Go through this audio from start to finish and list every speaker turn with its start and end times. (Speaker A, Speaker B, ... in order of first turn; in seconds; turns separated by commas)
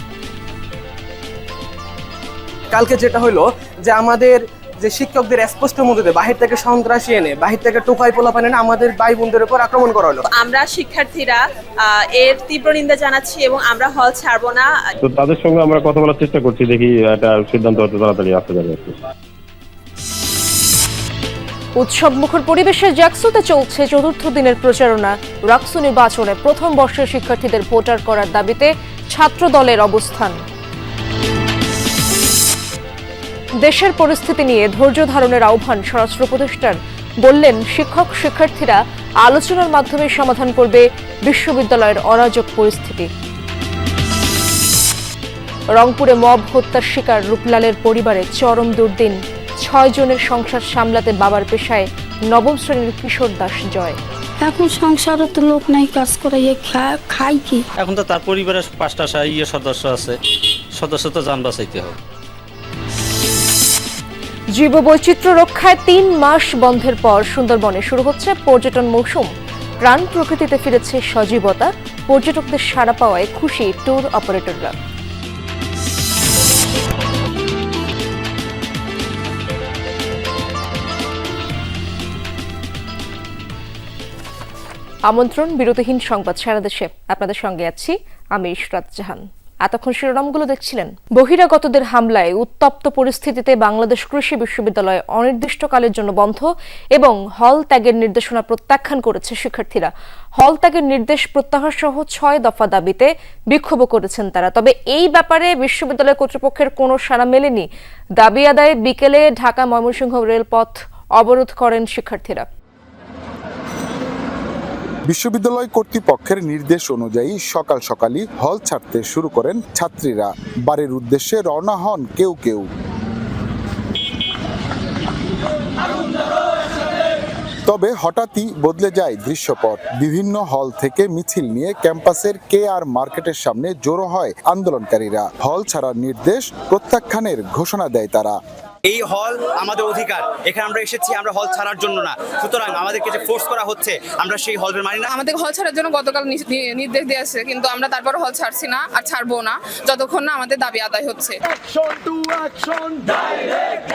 Speaker A: 2.7-10.2, Speaker B: 10.3-14.7, Speaker C: 15.0-18.9, Speaker D: 21.8-30.4, Speaker D: 33.6-43.1, Speaker D: 45.7-54.0, Speaker E: 54.4-57.6, Speaker F: 57.8-60.1, Speaker F: 60.8-62.0, Speaker D: 64.5-69.3, Speaker D: 69.8-74.7, Speaker D: 85.1-107.7, Speaker D: 108.2-112.5, Speaker G: 115.1-122.7, Speaker G: 127.7-138.4, Speaker H: 138.9-145.1, Speaker I: 145.2-151.3